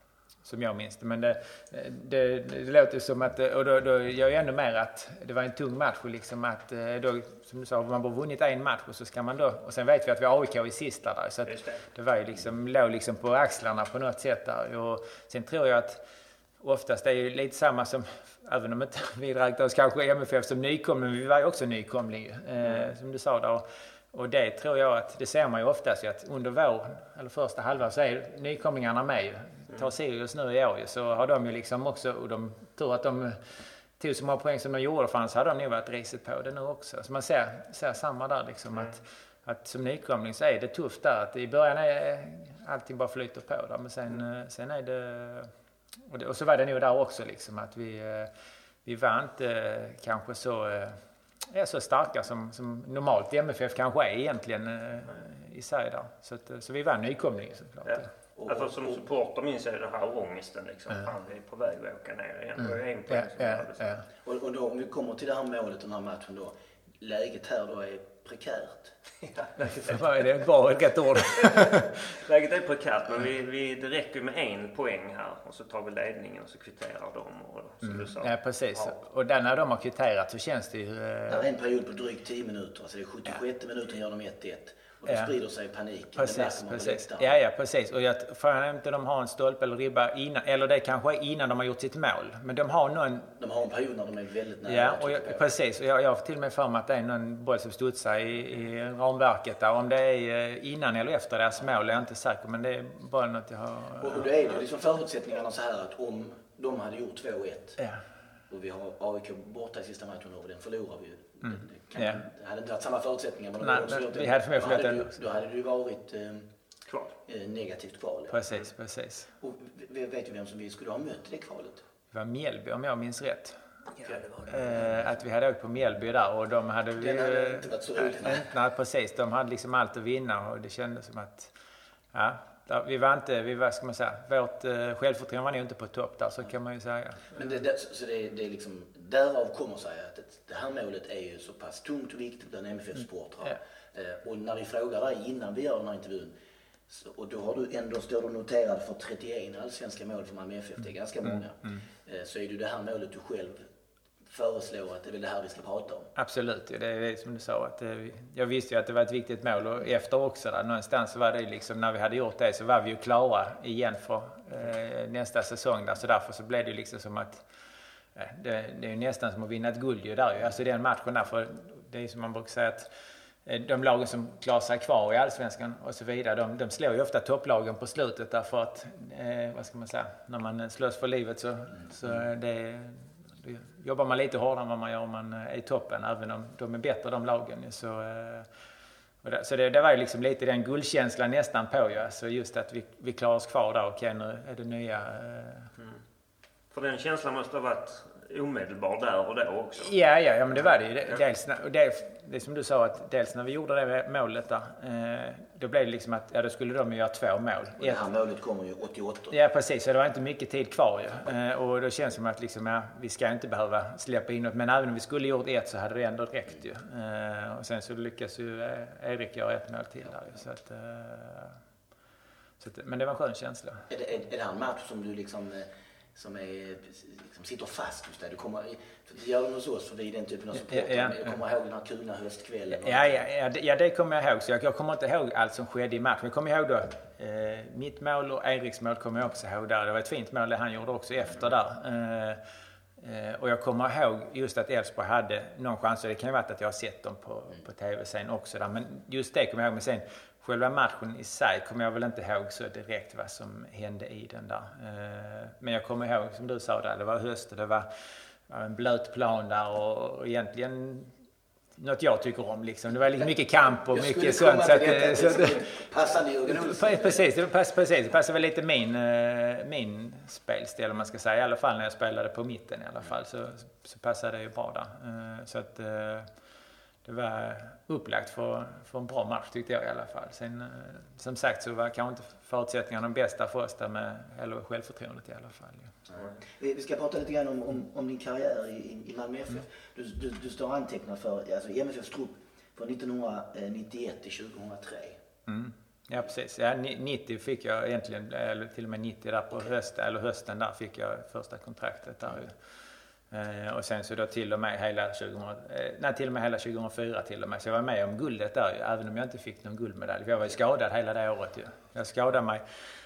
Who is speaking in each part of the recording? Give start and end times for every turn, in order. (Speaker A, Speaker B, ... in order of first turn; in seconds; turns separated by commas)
Speaker A: 0.4-16.0, Speaker B: 11.5-11.8, Speaker A: 16.6-33.4, Speaker A: 34.0-45.5, Speaker A: 46.1-48.3, Speaker A: 48.8-58.1, Speaker B: 57.8-64.0, Speaker C: 58.4-59.0, Speaker A: 63.1-64.1, Speaker C: 64.2-69.0, Speaker B: 69.2-70.1, Speaker A: 69.7-71.9, Speaker B: 71.3-79.0, Speaker A: 77.8-81.5, Speaker C: 81.3-87.4, Speaker A: 85.1-85.3, Speaker A: 86.2-93.3, Speaker C: 93.4-95.5, Speaker A: 94.6-104.3, Speaker C: 104.0-107.8, Speaker C: 108.5-116.5, Speaker A: 111.4-112.2, Speaker A: 113.6-115.1, Speaker B: 116.9-117.1, Speaker C: 117.2-118.4, Speaker A: 118.3-119.3, Speaker C: 119.4-121.8, Speaker A: 122.1-123.6, Speaker B: 124.0-124.5, Speaker C: 124.0-124.9, Speaker A: 124.5-131.5, Speaker C: 127.0-128.5, Speaker A: 132.1-137.3, Speaker C: 137.3-146.3, Speaker C: 146.9-153.6, Speaker C: 154.2-156.1, Speaker A: 156.2-167.4, Speaker A: 168.2-172.9, Speaker A: 173.4-188.5, Speaker A: 189.2-195.7, Speaker B: 196.7-199.9, Speaker A: 199.8-208.0, Speaker C: 207.8-209.3, Speaker A: 209.3-221.6, Speaker A: 222.6-223.9, Speaker C: 223.9-233.2, Speaker A: 230.6-231.3, Speaker A: 232.7-242.4, Speaker A: 243.0-257.9, Speaker A: 258.5-261.1, Speaker A: 261.8-265.8, Speaker C: 263.8-267.2, Speaker A: 266.5-276.3, Speaker A: 277.0-285.9, Speaker C: 286.1-295.2, Speaker A: 295.4-302.5, Speaker A: 303.3-312.6